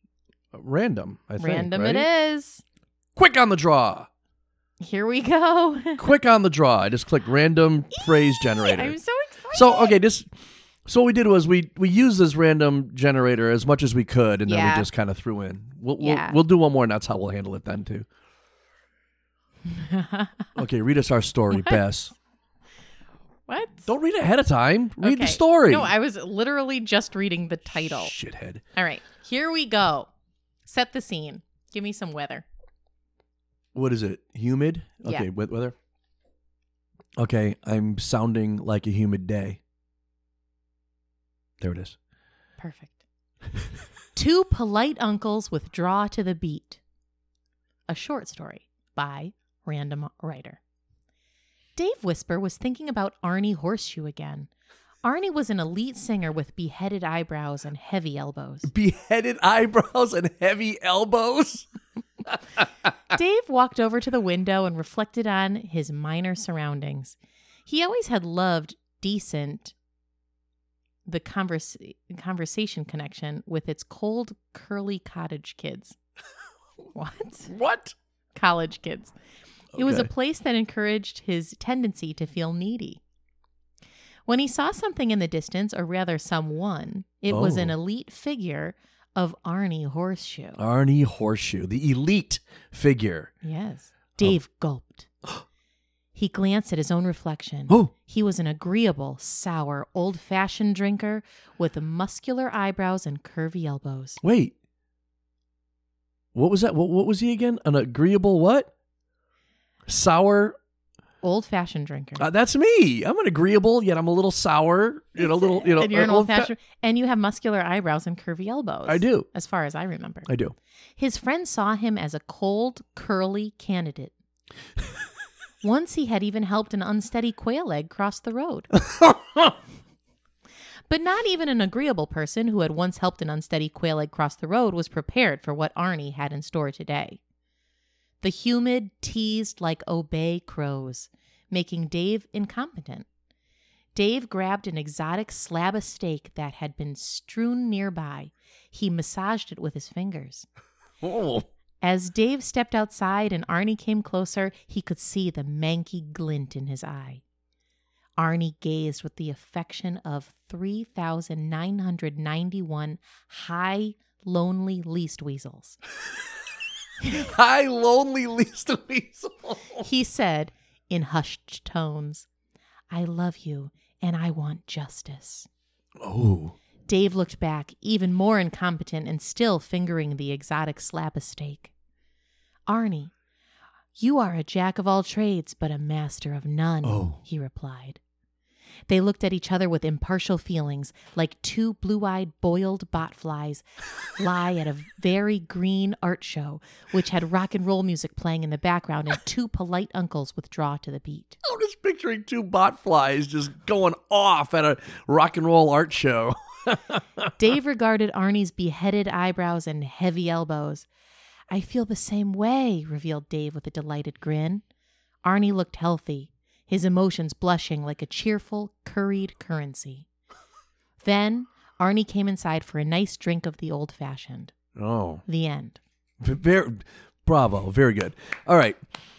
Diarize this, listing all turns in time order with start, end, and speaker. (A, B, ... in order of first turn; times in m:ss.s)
0:00.5-0:02.1 A
0:01.4-0:02.6 B
0:03.2-0:04.1 A
0:04.8-0:06.0 B
0:06.0-0:09.0 A
0:07.9-0:10.0 B
0:09.5-0:10.3 A
0:10.8-0:18.1 A
0:14.5-0:14.9 B
0:16.0-0:16.4 B
0:19.7-0:20.5 B
0:20.6-0:22.2 A
0:21.5-0:21.8 B
0:23.5-0:23.9 B
0:23.9-0:25.9 A
0:25.0-0:28.1 B
0:27.7-0:28.6 A
0:28.8-0:30.1 B
0:30.7-0:32.4 B
0:33.7-0:35.8 A
0:37.2-0:39.6 A
0:41.6-0:42.0 A
0:42.6-0:43.0 B
0:44.2-0:46.8 B
0:47.9-0:50.6 B
0:51.8-0:54.5 B
0:55.0-0:58.7 B
0:58.7-1:01.7 A
1:02.3-1:02.7 A
1:03.1-1:09.7 B
1:11.1-1:16.0 B
1:17.0-1:17.5 B
1:17.5-1:18.0 A
1:18.4-1:19.2 B
1:19.8-1:20.1 A
1:19.8-1:23.0 B
1:24.3-1:30.6 B
1:27.3-1:27.8 A
1:30.6-1:33.3 A
1:33.4-1:35.1 B
1:36.2-1:44.2 B
1:44.2-1:44.5 A
1:46.3-1:48.7 A
1:49.9-1:50.6 A
1:51.2-1:52.3 B
1:52.2-1:56.5 A
1:55.2-2:00.3 B
1:58.9-1:59.3 A
2:00.3-2:00.6 A
2:01.0-2:04.1 B
2:05.6-2:08.7 B
2:08.8-2:09.5 A
2:10.9-2:17.2 B
2:18.2-2:23.1 B
2:24.0-2:30.5 B
2:31.0-2:31.5 A
2:31.8-2:37.2 B
2:38.2-2:45.8 B
2:47.1-2:49.9 A
2:49.8-2:52.3 B
2:52.9-2:55.5 B
2:56.0-2:56.6 A
2:56.9-3:01.7 B
3:02.7-3:03.1 B
3:04.0-3:08.0 B
3:06.8-3:07.2 A
3:08.9-3:21.4 B
3:21.4-3:27.3 A
3:27.4-3:30.9 B
3:31.5-3:34.6 B
3:35.2-3:40.1 B
3:41.0-3:44.5 B
3:44.8-3:45.2 A
3:45.3-3:45.8 B
3:46.2-3:48.8 A